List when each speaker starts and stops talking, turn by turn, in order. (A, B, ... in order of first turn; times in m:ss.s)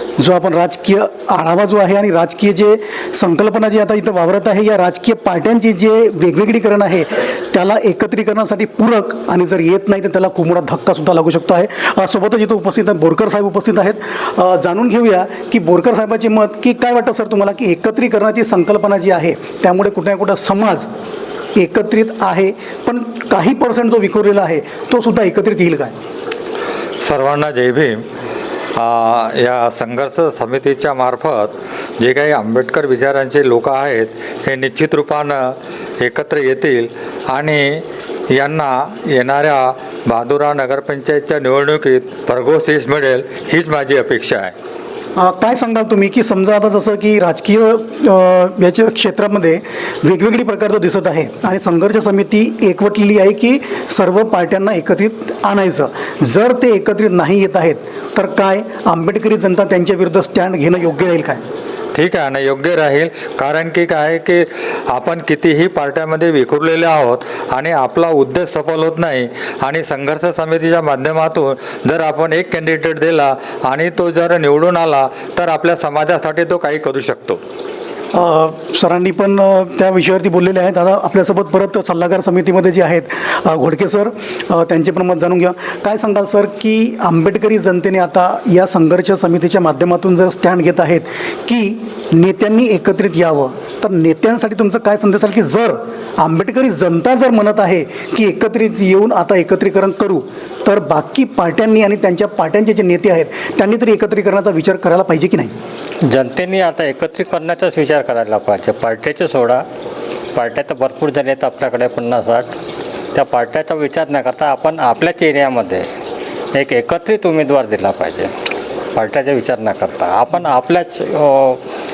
0:00.2-0:20.9 A
0:21.5-0:26.0 A
0:27.0-0:28.0 B
0:28.8-0:44.5 B
0:45.2-1:01.4 A
1:01.9-1:17.4 B
1:18.1-1:45.5 A
1:46.1-1:49.6 C
1:50.3-1:52.5 C
1:53.1-1:55.8 C
1:56.5-1:58.3 C
1:58.9-2:01.6 C